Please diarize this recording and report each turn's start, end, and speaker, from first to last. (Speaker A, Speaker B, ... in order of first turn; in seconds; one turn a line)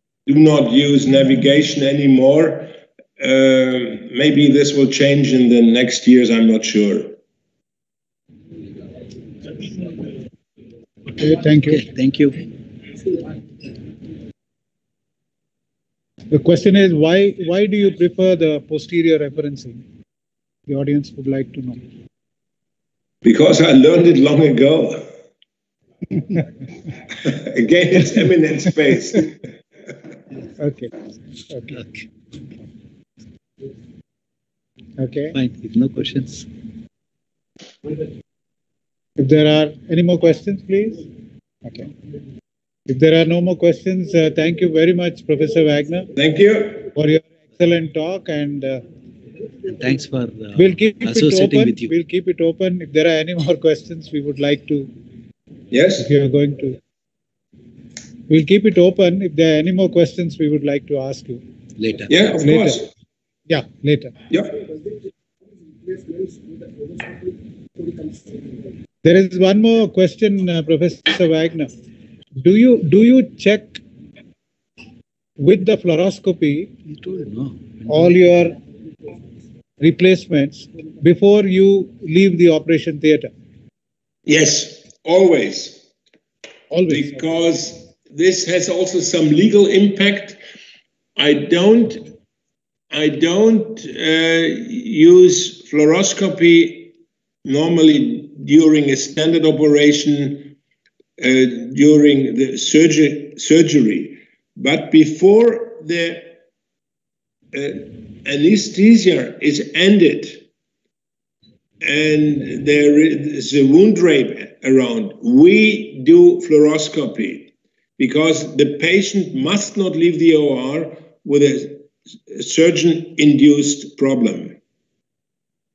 Speaker A: 0.2-7.2
Speaker B: 11.2-11.8
Speaker C: 11.6-12.4
Speaker B: 16.3-19.8
Speaker B: 20.7-21.8
Speaker A: 23.2-25.1
Speaker A: 27.2-29.4
Speaker B: 30.6-30.9
Speaker B: 31.5-31.8
Speaker B: 35.0-35.4
Speaker C: 35.3-36.5
Speaker B: 39.2-41.0
Speaker B: 42.9-46.1
Speaker A: 46.1-46.9
Speaker B: 46.9-48.8
Speaker C: 49.6-51.9
Speaker B: 50.5-54.9
Speaker A: 55.7-56.1
Speaker B: 56.0-56.8
Speaker B: 58.3-61.4
Speaker C: 61.8-62.1
Speaker A: 62.1-62.9
Speaker B: 62.4-62.8
Speaker B: 63.5-64.1
Speaker A: 64.3-64.5
Speaker B: 69.0-71.7
Speaker B: 72.4-73.8
Speaker B: 75.4-76.7
Speaker C: 76.8-78.2
Speaker B: 77.9-78.5
Speaker B: 79.8-83.3
Speaker A: 84.2-85.8
Speaker B: 86.7-87.3
Speaker A: 86.9-90.4
Speaker A: 91.2-92.1
Speaker A: 92.9-100.5
Speaker A: 101.2-106.4
Speaker A: 107.5-110.5
Speaker A: 111.8-124.6